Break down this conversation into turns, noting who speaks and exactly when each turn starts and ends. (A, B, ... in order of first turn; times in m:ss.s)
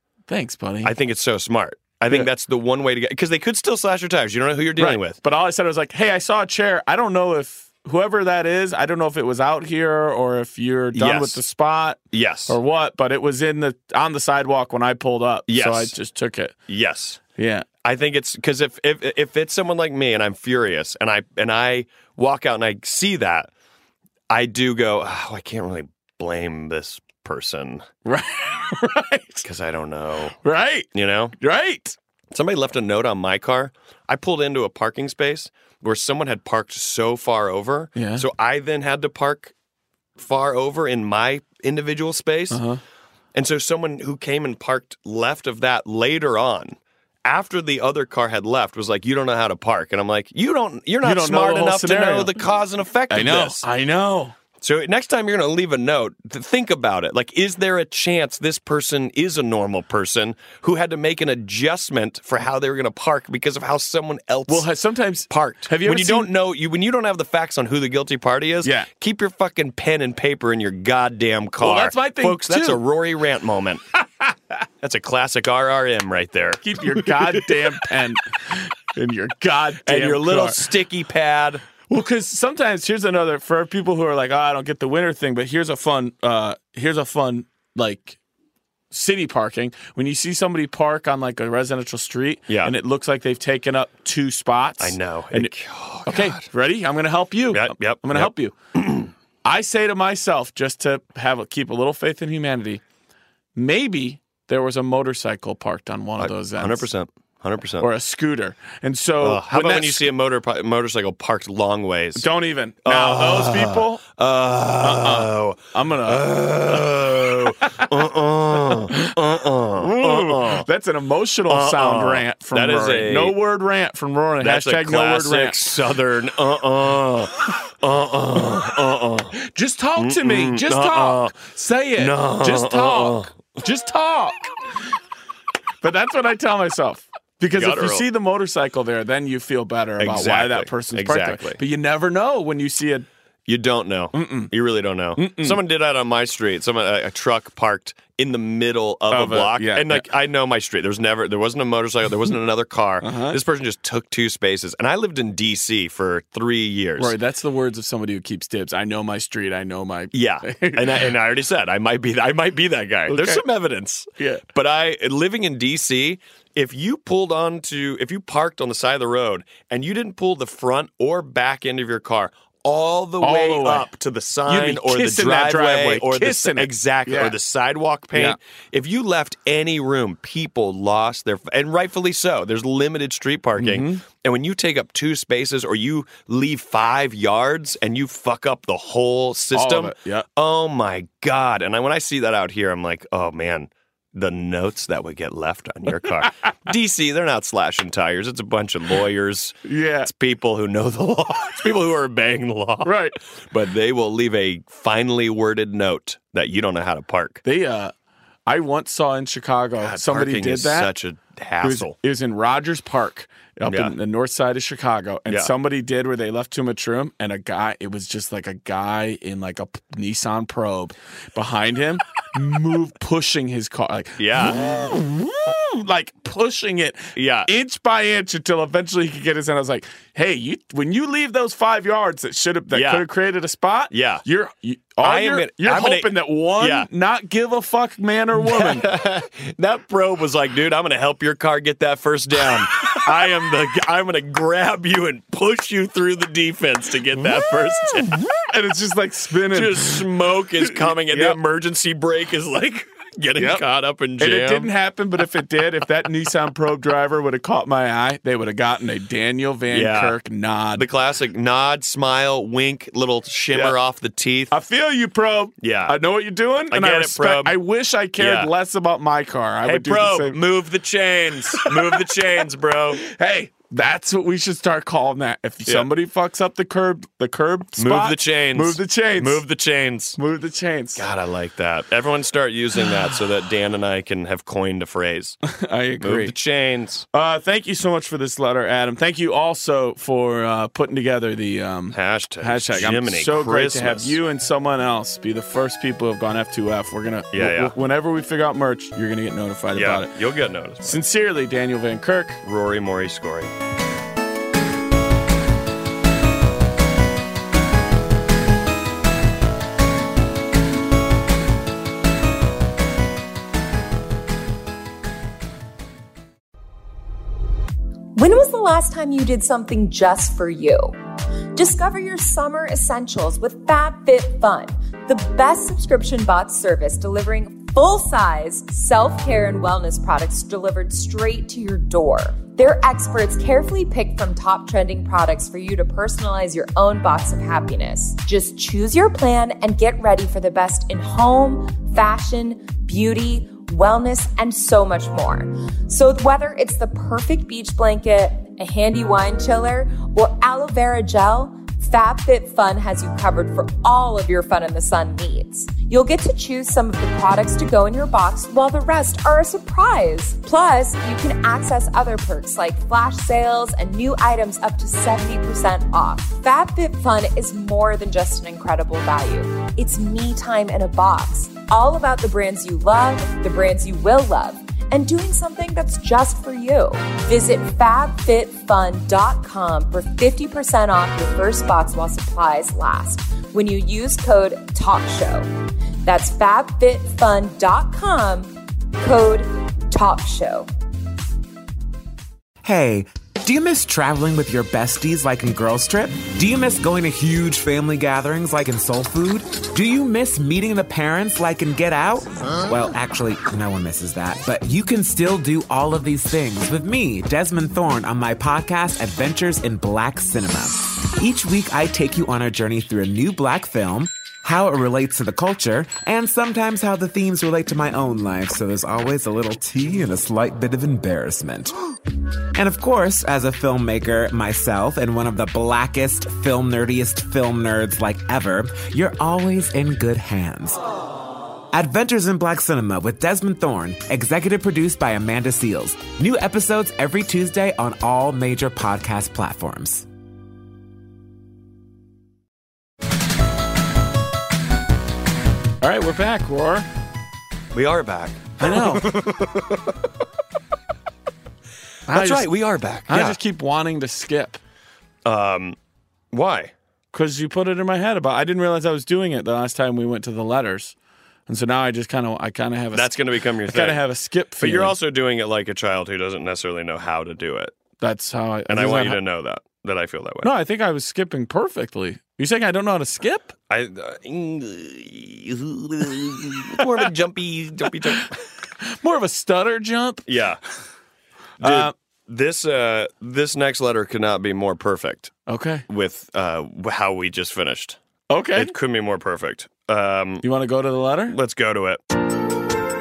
0:00.3-0:00.9 A
0:00.8-0:05.2 B
0:04.8-0:16.5 A
0:10.9-0:11.4 B
0:12.1-0:12.6 B
0:15.5-0:15.9 B
0:16.7-0:17.2 B
0:17.4-0:17.6 A
0:17.8-0:23.5 B
0:24.3-0:27.8 B
0:28.0-0:29.4 A
0:29.4-0:30.4 B
0:30.4-0:32.0 A
0:30.9-0:31.4 B
0:32.3-0:39.5 B
0:38.0-0:38.2 A
0:40.2-0:42.6 B
0:42.5-0:42.8 A
0:43.3-0:53.6 B
0:51.0-0:52.3 A
0:53.1-0:54.3 A
0:54.6-1:04.7 B
1:04.5-1:06.3 A
1:05.3-1:13.8 B
1:11.6-1:12.8 A
1:14.8-1:17.6 B
1:16.6-1:20.6 A
1:19.8-1:21.6 B
1:21.9-1:28.2 A
1:28.9-1:35.5 A
1:32.5-1:32.7 B
1:34.8-1:36.5 B
1:36.0-1:38.5 A
1:37.5-1:39.1 B
1:39.4-1:42.8 A
1:43.6-1:46.9 A
1:46.2-1:47.9 B
1:47.8-1:50.1 A
1:49.2-1:52.2 B
1:52.2-1:54.0 A
1:52.8-2:00.7 B
1:54.8-1:57.9 A
1:58.7-1:59.1 A
1:59.8-2:05.6 A
2:01.5-2:03.4 B
2:04.4-2:09.3 B
2:09.3-2:14.5 A
2:10.0-2:11.4 B
2:12.0-2:13.3 B
2:15.8-2:23.0 A
2:17.5-2:18.0 B
2:20.0-2:21.6 B
2:23.5-2:37.1 B
2:24.1-2:24.5 A
2:25.2-2:25.6 A
2:29.1-2:30.0 A
2:33.0-2:33.4 A
2:37.0-2:41.1 A
2:40.1-3:27.4 B
2:43.1-2:43.4 A
2:44.2-2:44.4 A
2:53.2-2:53.9 A
2:54.5-2:57.3 A
3:03.6-3:04.0 A
3:09.5-3:10.2 A
3:19.6-3:20.1 A
3:22.8-3:23.2 A
3:27.4-3:27.9 A
3:28.5-3:30.9 A
3:29.8-3:31.9 B
3:31.6-3:58.8 A
3:33.6-3:33.9 B
3:44.2-3:44.6 B
3:47.2-3:47.5 B
3:52.7-3:53.1 B
3:53.9-3:54.2 B
3:55.0-3:56.9 B
3:58.4-4:08.2 B
4:08.0-4:10.0 A
4:09.5-4:14.7 B
4:10.6-4:11.4 A
4:13.4-4:13.6 A
4:14.2-4:20.8 A
4:19.7-4:20.2 B
4:20.8-4:24.5 B
4:23.5-4:23.8 A
4:24.5-4:30.4 A
4:25.6-4:26.0 B
4:26.7-4:27.6 B
4:28.2-4:28.5 B
4:29.6-4:33.0 B
4:31.5-4:32.0 A
4:33.0-4:39.4 A
4:37.8-4:40.2 B
4:40.2-4:41.0 A
4:41.0-4:45.4 B
4:45.4-4:46.3 A
4:46.0-4:47.0 B
4:47.1-5:00.1 A
4:51.9-4:54.2 B
4:57.3-4:57.7 B
4:59.7-5:01.0 B
5:00.8-5:02.4 A
5:02.4-5:03.5 B
5:18.2-5:21.0 C
5:21.5-6:25.5 C
6:26.0-6:30.7 C
6:32.6-7:01.8 D
7:02.5-7:10.8 D
7:11.7-7:20.0 D
7:25.8-7:26.8 A
7:27.7-7:29.8 B
7:28.6-7:29.1 A
7:32.1-7:32.5 A
7:32.1-7:33.4 B
7:33.1-7:34.6 A
7:35.2-7:35.8 B
7:36.3-7:36.7 B
7:37.1-7:40.9 A
7:41.5-7:43.1 A
7:42.9-7:44.0 B
7:43.7-7:44.9 A
7:44.6-7:47.7 B
7:48.0-7:49.2 A
7:48.7-7:50.5 B
7:50.4-7:53.5 A
7:53.7-7:58.4 B
7:58.8-8:00.2 A
8:00.3-8:00.6 B
8:01.6-8:01.9 A
8:01.6-8:05.4 B
8:05.5-8:05.8 A
8:05.9-8:08.0 B
8:08.3-8:08.7 A
8:08.5-8:10.4 B
8:10.4-8:11.4 A
8:11.3-8:12.0 B